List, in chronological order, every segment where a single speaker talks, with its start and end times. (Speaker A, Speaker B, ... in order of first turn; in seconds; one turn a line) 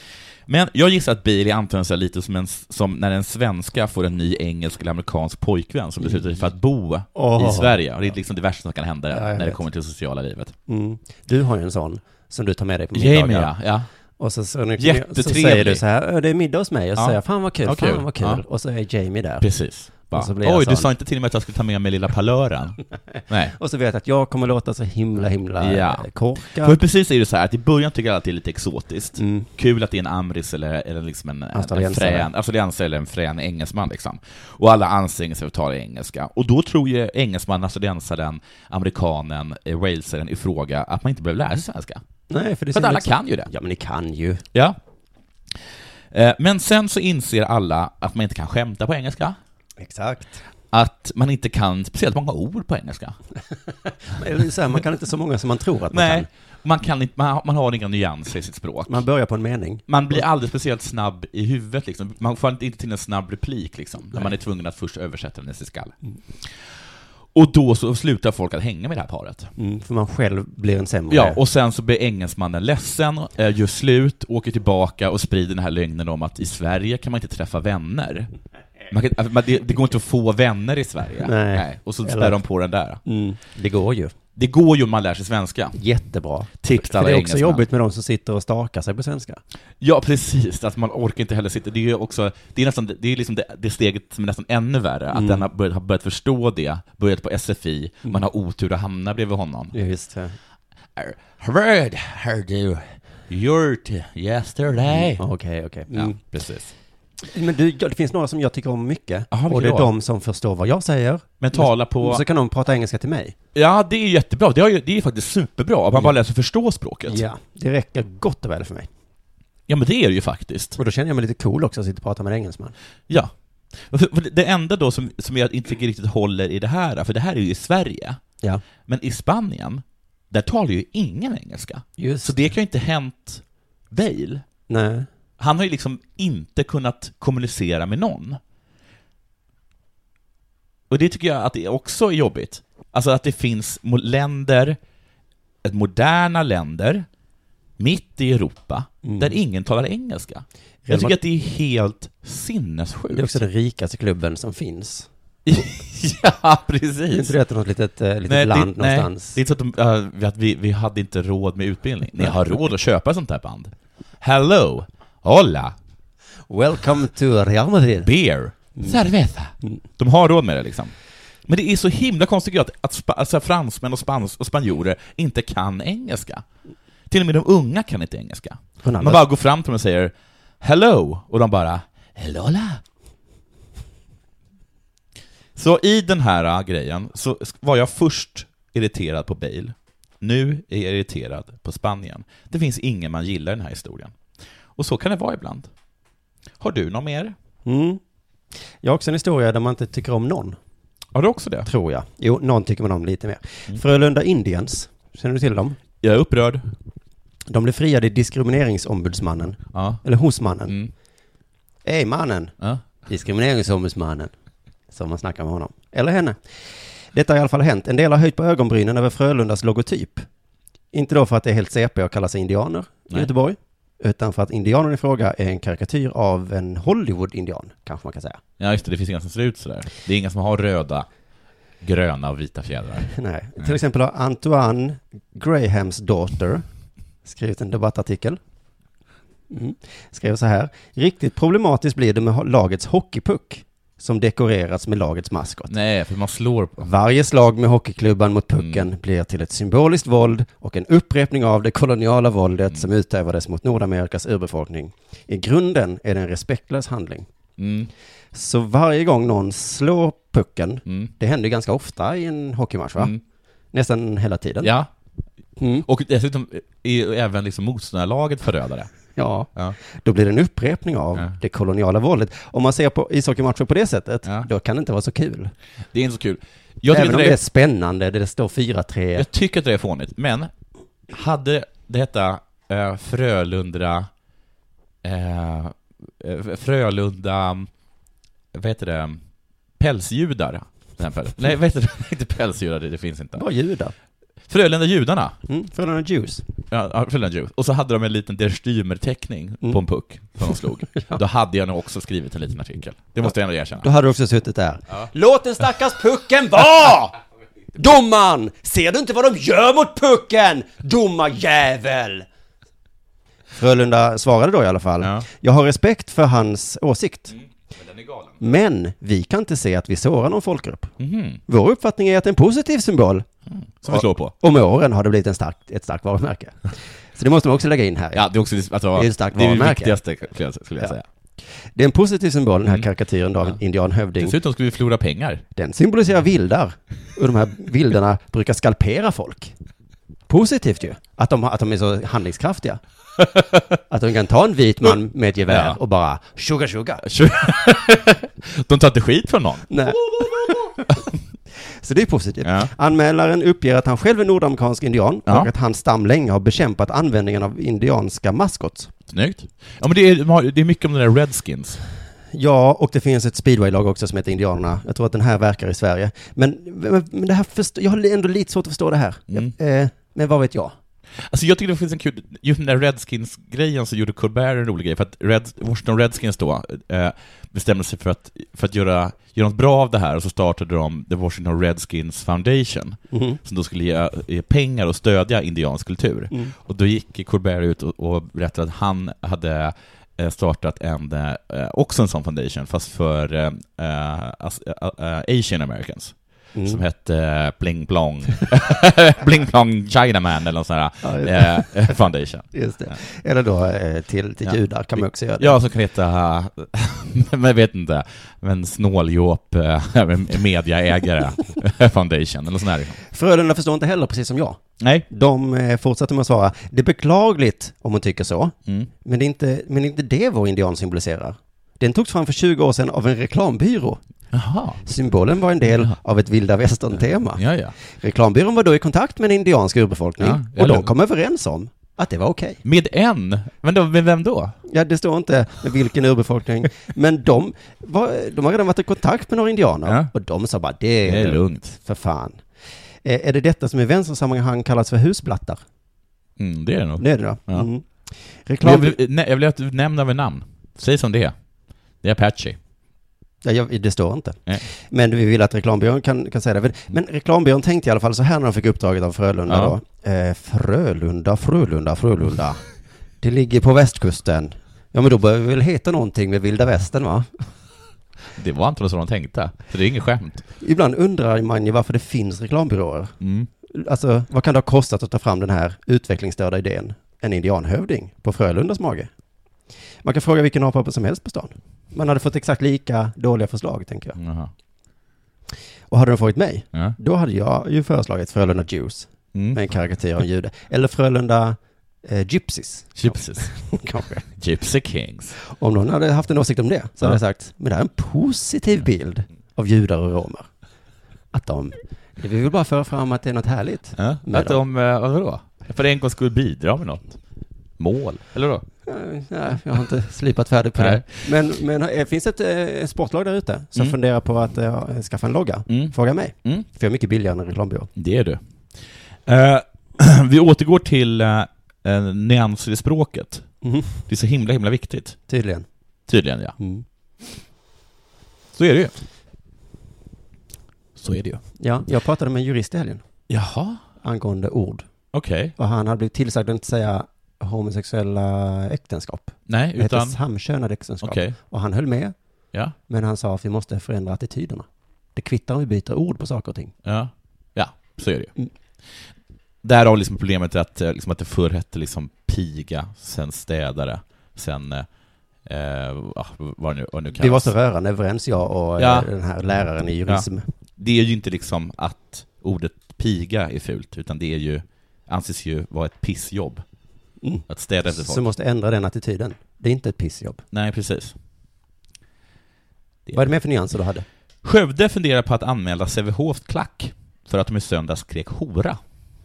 Speaker A: 0.5-10.5
Speaker B: 7.1-7.8
Speaker B: 9.1-9.6
Speaker B: 10.7-13.5
Speaker A: 12.9-13.9
Speaker B: 14.2-19.4
Speaker A: 14.8-15.8
Speaker A: 16.9-18.4
Speaker A: 19.4-23.5
Speaker B: 20.0-20.9
Speaker B: 23.5-26.8
Speaker A: 25.6-42.0
Speaker B: 29.2-29.5
Speaker B: 31.5-32.3
Speaker B: 42.3-44.4
Speaker A: 42.7-43.5
Speaker A: 44.5-44.8
Speaker A: 46.1-49.4
Speaker B: 49.8-50.4
Speaker A: 50.7-53.2
Speaker B: 54.1-56.3
Speaker A: 55.9-59.0
Speaker B: 58.9-60.2
Speaker A: 59.9-66.8
Speaker A: 67.3-69.5
Speaker B: 69.6-71.4
Speaker A: 71.1-78.3
Speaker A: 78.9-83.0
Speaker B: 81.2-82.4
Speaker B: 83.0-84.1
Speaker A: 84.3-85.8
Speaker B: 85.7-89.4
Speaker A: 86.6-87.6
Speaker A: 89.8-99.7
Speaker B: 95.1-95.5
Speaker B: 99.7-100.4
Speaker A: 101.0-105.2
Speaker B: 105.2-106.2
Speaker A: 105.9-106.7
Speaker B: 107.2-113.3
Speaker A: 109.3-109.9
Speaker A: 111.4-112.2
Speaker A: 113.5-117.2
Speaker B: 117.1-118.9
Speaker A: 119.7-120.8
Speaker B: 120.8-122.7
Speaker A: 123.1-128.2
Speaker A: 128.8-134.4
Speaker B: 132.0-132.3
Speaker B: 134.7-135.1
Speaker A: 135.4-138.4
Speaker A: 140.9-144.8
Speaker A: 145.6-147.1
Speaker A: 147.8-153.4
Speaker B: 149.0-149.4
Speaker B: 150.8-151.2
Speaker B: 153.1-155.1
Speaker A: 155.4-157.3
Speaker B: 157.1-159.4
Speaker A: 158.3-165.7
Speaker B: 166.5-168.1
Speaker A: 168.0-170.9
Speaker A: 171.4-176.4
Speaker A: 177.1-182.8
Speaker B: 178.8-179.2
Speaker A: 185.6-194.2
Speaker A: 194.8-195.7
Speaker A: 196.6-197.3
Speaker B: 197.7-198.0
Speaker B: 198.8-200.6
Speaker A: 201.1-201.7
Speaker B: 201.7-205.8
Speaker A: 206.0-206.7
Speaker B: 207.5-210.7
Speaker A: 209.7-210.0
Speaker B: 211.8-212.5
Speaker B: 213.0-214.3
Speaker B: 214.9-216.4
Speaker B: 217.1-220.2
Speaker B: 220.9-228.4
Speaker A: 228.6-231.1
Speaker A: 231.8-233.7
Speaker B: 233.1-236.6
Speaker B: 237.2-238.4
Speaker B: 239.5-245.7
Speaker A: 245.7-246.9
Speaker B: 246.8-257.3
Speaker A: 248.6-248.9
Speaker A: 257.6-257.9
Speaker B: 258.3-263.1
Speaker A: 260.9-261.1
Speaker B: 263.7-264.7
Speaker A: 264.6-264.9
Speaker B: 265.6-265.9
Speaker A: 265.9-268.9
Speaker B: 269.1-275.5
Speaker A: 275.9-277.4
Speaker B: 276.9-279.3
Speaker A: 279.1-280.5
Speaker A: 281.1-284.1
Speaker A: 285.0-287.7
Speaker A: 288.5-289.2
Speaker A: 289.8-293.4
Speaker B: 293.4-293.9
Speaker A: 294.5-295.4
Speaker B: 295.5-296.4
Speaker A: 296.7-303.9
Speaker B: 300.9-301.2
Speaker B: 303.8-307.2
Speaker B: 307.7-312.3
Speaker B: 313.5-317.4
Speaker A: 315.0-315.2
Speaker A: 317.7-318.4
Speaker B: 318.4-320.9
Speaker A: 321.0-321.4
Speaker B: 321.5-323.2
Speaker A: 323.5-324.3
Speaker B: 323.9-328.2
Speaker A: 328.1-331.0
Speaker B: 328.9-330.0
Speaker B: 331.7-334.4
Speaker A: 334.2-335.4
Speaker B: 335.6-339.5
Speaker B: 340.3-342.8
Speaker B: 343.9-347.1
Speaker A: 345.5-345.8
Speaker A: 347.0-350.9
Speaker B: 349.7-350.9
Speaker B: 351.6-358.9
Speaker A: 352.4-352.7
Speaker A: 359.1-361.8
Speaker B: 362.3-370.7
Speaker A: 371.2-402.9
Speaker B: 383.1-383.4
Speaker B: 396.5-396.8
Speaker B: 401.0-402.0
Speaker B: 402.5-405.6
Speaker A: 405.4-413.0
Speaker B: 413.0-424.0
Speaker A: 414.8-415.1
Speaker A: 424.3-424.8
Speaker B: 424.8-432.6
Speaker A: 425.7-425.9
Speaker A: 427.4-427.7
Speaker A: 430.2-430.9
Speaker A: 432.6-434.6
Speaker B: 434.6-442.4
Speaker A: 441.0-441.8
Speaker B: 443.0-445.6
Speaker A: 446.4-447.7
Speaker B: 447.0-449.0
Speaker A: 448.6-451.3
Speaker A: 452.0-452.6
Speaker B: 453.4-462.6
Speaker A: 459.5-459.8
Speaker B: 463.2-467.5
Speaker A: 468.3-470.4
Speaker B: 470.6-473.1
Speaker A: 473.2-473.5
Speaker B: 473.7-479.1
Speaker B: 480.0-484.2
Speaker A: 484.2-484.5
Speaker B: 485.9-494.2
Speaker A: 489.3-489.6
Speaker A: 493.0-493.7
Speaker A: 494.2-495.3
Speaker B: 495.4-500.5
Speaker B: 501.3-504.6
Speaker A: 503.9-507.2
Speaker A: 507.8-508.6
Speaker B: 508.9-517.9
Speaker A: 510.8-511.0
Speaker A: 515.7-516.6
Speaker A: 518.0-518.4
Speaker A: 519.2-525.2
Speaker B: 523.6-524.0
Speaker B: 525.3-525.7
Speaker A: 526.1-526.6
Speaker B: 526.6-526.8
Speaker A: 528.5-528.9
Speaker A: 531.0-531.4
Speaker B: 531.6-533.0
Speaker A: 533.3-533.8
Speaker B: 534.0-534.9
Speaker A: 535.1-535.5
Speaker B: 535.6-542.1
Speaker A: 539.5-540.2
Speaker A: 541.0-541.3
Speaker B: 542.9-546.7
Speaker A: 546.8-548.3
Speaker A: 549.6-554.9
Speaker A: 555.4-557.5
Speaker B: 557.2-560.5
Speaker A: 558.8-559.1
Speaker A: 560.8-566.6
Speaker B: 567.2-570.4
Speaker A: 567.5-568.2
Speaker A: 570.5-571.1
Speaker B: 573.1-574.0
Speaker A: 574.4-578.8